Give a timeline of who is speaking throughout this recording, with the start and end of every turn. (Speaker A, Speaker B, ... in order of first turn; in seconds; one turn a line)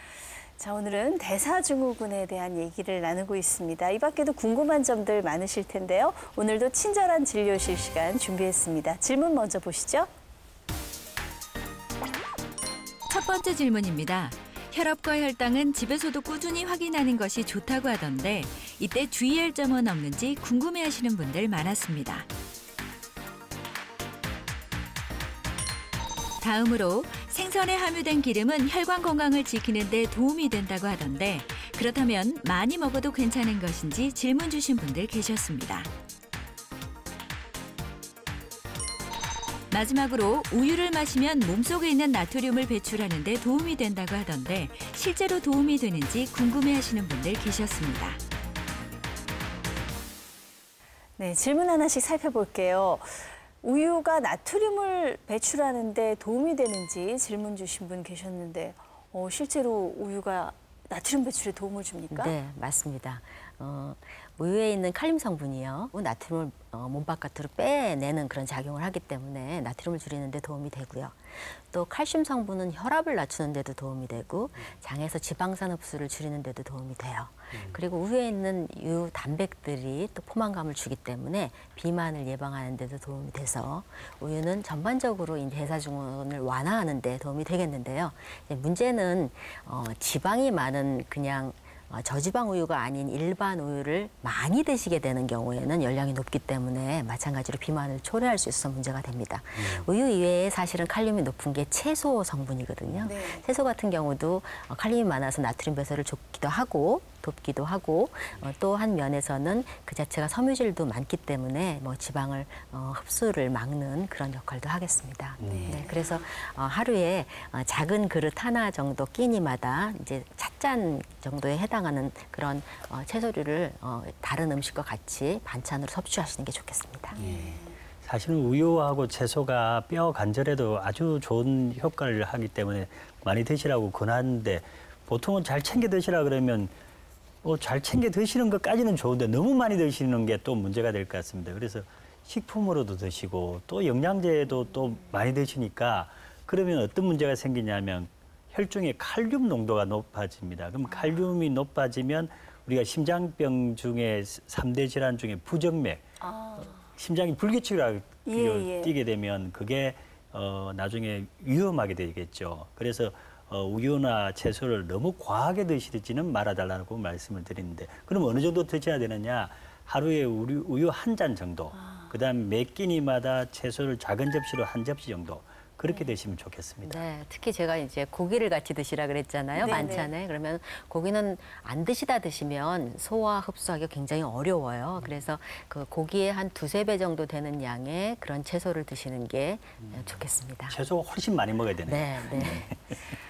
Speaker A: 0.6-10.1
Speaker B: 13.1-22.3
Speaker B: 26.4-35.9
Speaker B: 39.7-48.2
Speaker A: 51.2-62.4
Speaker C: 62.1-127.2
Speaker A: 103.0-103.5
Speaker D: 115.4-115.8
Speaker A: 115.4-116.2
Speaker A: 127.1-127.7
Speaker D: 127.2-136.7
Speaker D: 137.4-156.0
Speaker A: 156.2-156.8
Speaker D: 156.7-177.0
Speaker A: 158.2-158.9
Speaker A: 171.7-172.1
Speaker C: 176.8-190.8
Speaker A: 179.6-180.1
Speaker D: 190.7-192.9
Speaker C: 191.9-192.7